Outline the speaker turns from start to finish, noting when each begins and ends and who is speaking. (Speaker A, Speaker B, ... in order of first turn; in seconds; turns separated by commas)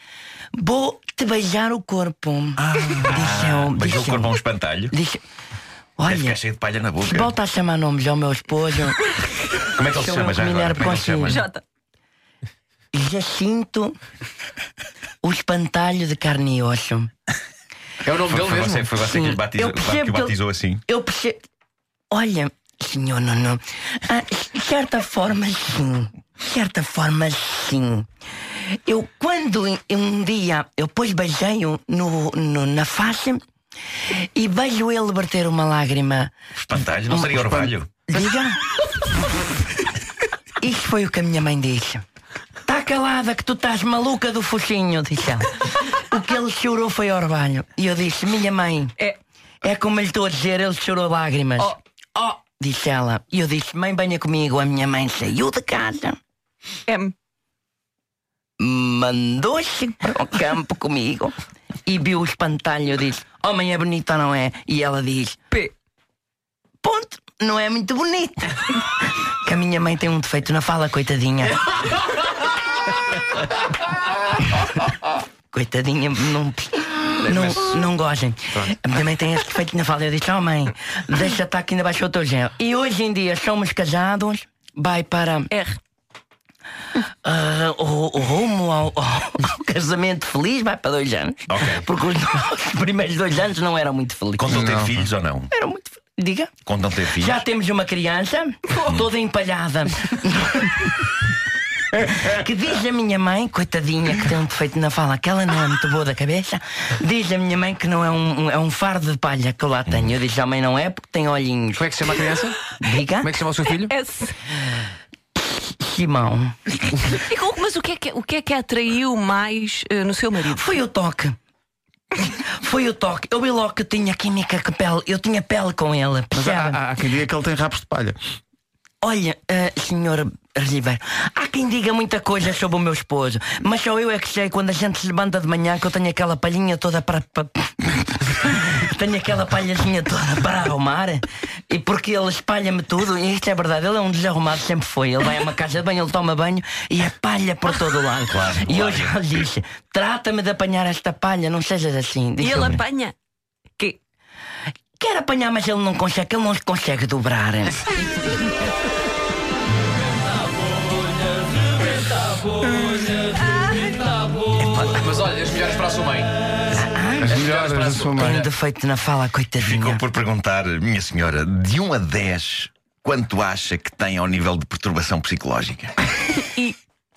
Speaker A: 0.6-4.3, Speaker B: 2.6-4.9, Speaker A: 4.9-5.2, Speaker A: 6.0-6.4, Speaker B: 6.0-7.3, Speaker A: 7.0-9.1, Speaker B: 9.7-11.5, Speaker A: 9.9-11.4, Speaker C: 11.3-11.6, Speaker A: 12.9-14.0, Speaker A: 15.2-17.1, Speaker D: 18.0-19.3, Speaker B: 18.2-20.8, Speaker A: 19.0-21.4, Speaker A: 22.1-28.1, Speaker A: 28.6-33.4, Speaker A: 34.1-36.3, Speaker B: 36.6-37.9, Speaker A: 37.1-38.6, Speaker A: 40.6-42.0, Speaker A: 42.6-49.0, Speaker A: 49.6-56.2, Speaker C: 56.9-57.1, Speaker A: 58.6-61.4, Speaker A: 61.9-65.4, Speaker A: 66.8-71.6, Speaker A: 75.5-85.7, Speaker D: 77.2-77.7, Speaker A: 87.0-94.7, Speaker B: 91.5-91.8, Speaker B: 94.4-95.5, Speaker E: 94.5-95.1, Speaker A: 95.5-96.5, Speaker B: 96.7-97.4, Speaker A: 97.1-101.0, Speaker A: 101.9-111.9, Speaker D: 111.8-112.6, Speaker A: 112.8-113.3, Speaker D: 113.2-113.9, Speaker C: 113.9-114.4, Speaker A: 115.4-117.1, Speaker C: 117.2-120.7, Speaker A: 120.4-121.4, Speaker A: 122.2-126.8, Speaker E: 126.3-128.2, Speaker A: 129.0-152.8, Speaker B: 148.3-149.2, Speaker C: 152.4-153.2, Speaker A: 155.0-157.9, Speaker D: 164.8-166.4, Speaker A: 166.7-167.4, Speaker E: 167.2-168.5, Speaker D: 167.3-168.5, Speaker A: 168.2-170.0, Speaker B: 169.6-175.9, Speaker C: 176.5-176.7